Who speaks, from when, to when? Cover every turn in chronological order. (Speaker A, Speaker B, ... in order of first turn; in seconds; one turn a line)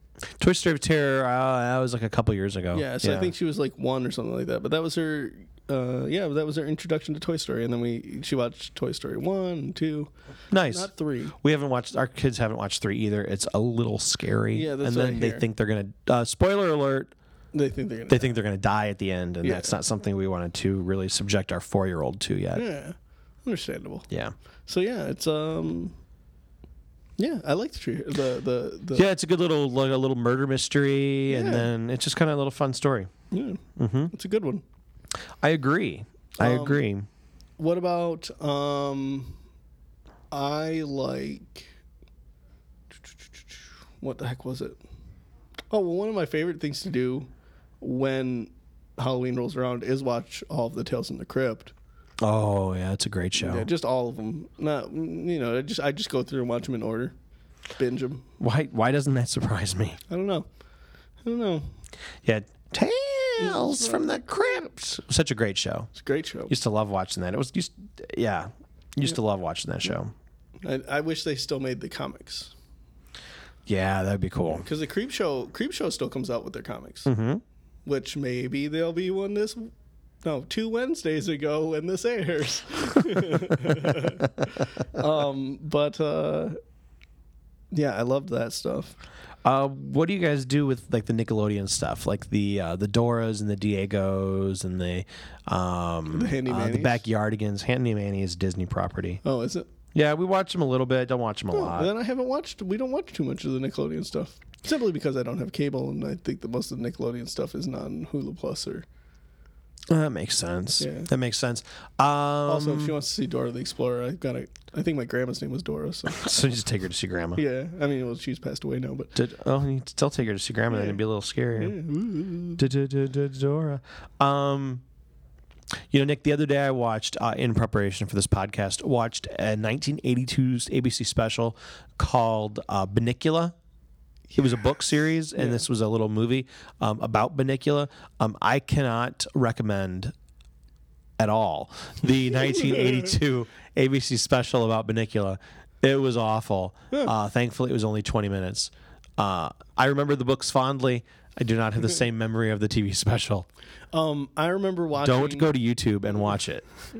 Speaker A: 0.4-3.3
Speaker B: 2.7-10.1
Speaker A: 10.5-17.1
Speaker B: 10.6-11.3
Speaker B: 14.5-15.4
Speaker B: 17.5-18.4
Speaker A: 18.1-22.6
Speaker B: 19.4-19.8
Speaker B: 22.5-24.1
Speaker B: 24.7-25.9
Speaker B: 27.2-29.0
Speaker A: 28.9-33.1
Speaker B: 31.3-31.7
Speaker B: 33.3-34.6
Speaker A: 33.8-34.1
Speaker A: 35.4-37.1
Speaker B: 36.4-36.8
Speaker B: 37.6-39.4
Speaker B: 40.3-41.7
Speaker B: 43.1-44.8
Speaker B: 45.7-47.3
Speaker B: 47.8-51.7
Speaker A: 52.2-53.7
Speaker B: 53.4-57.1
Speaker B: 57.8-58.2
Speaker A: 58.4-60.0
Speaker B: 60.1-60.5
Speaker B: 61.2-61.7
Speaker A: 62.2-65.9
Speaker B: 63.4-64.7
Speaker B: 65.9-66.5
Speaker A: 66.5-70.1
Speaker B: 70.6-72.5
Speaker A: 73.7-74.7
Speaker B: 74.5-77.1
Speaker A: 77.0-77.4
Speaker B: 77.8-79.7
Speaker B: 80.2-86.6
Speaker A: 83.3-84.1
Speaker B: 87.7-89.0
Speaker A: 89.4-99.2
Speaker B: 96.1-97.0
Speaker B: 99.2-99.7
Speaker A: 99.9-101.9
Speaker B: 101.5-108.8
Speaker A: 109.9-112.9
Speaker B: 110.8-111.1
Speaker B: 112.5-116.3
Speaker A: 116.1-117.4
Speaker B: 117.3-119.1
Speaker A: 119.1-121.8
Speaker B: 120.7-121.0
Speaker B: 121.5-122.6
Speaker A: 122.6-124.8
Speaker A: 125.9-133.6
Speaker B: 134.3-134.6
Speaker A: 134.3-140.1
Speaker B: 135.3-135.6
Speaker A: 141.2-153.5
Speaker B: 142.3-143.1
Speaker B: 153.9-155.5
Speaker A: 155.0-156.7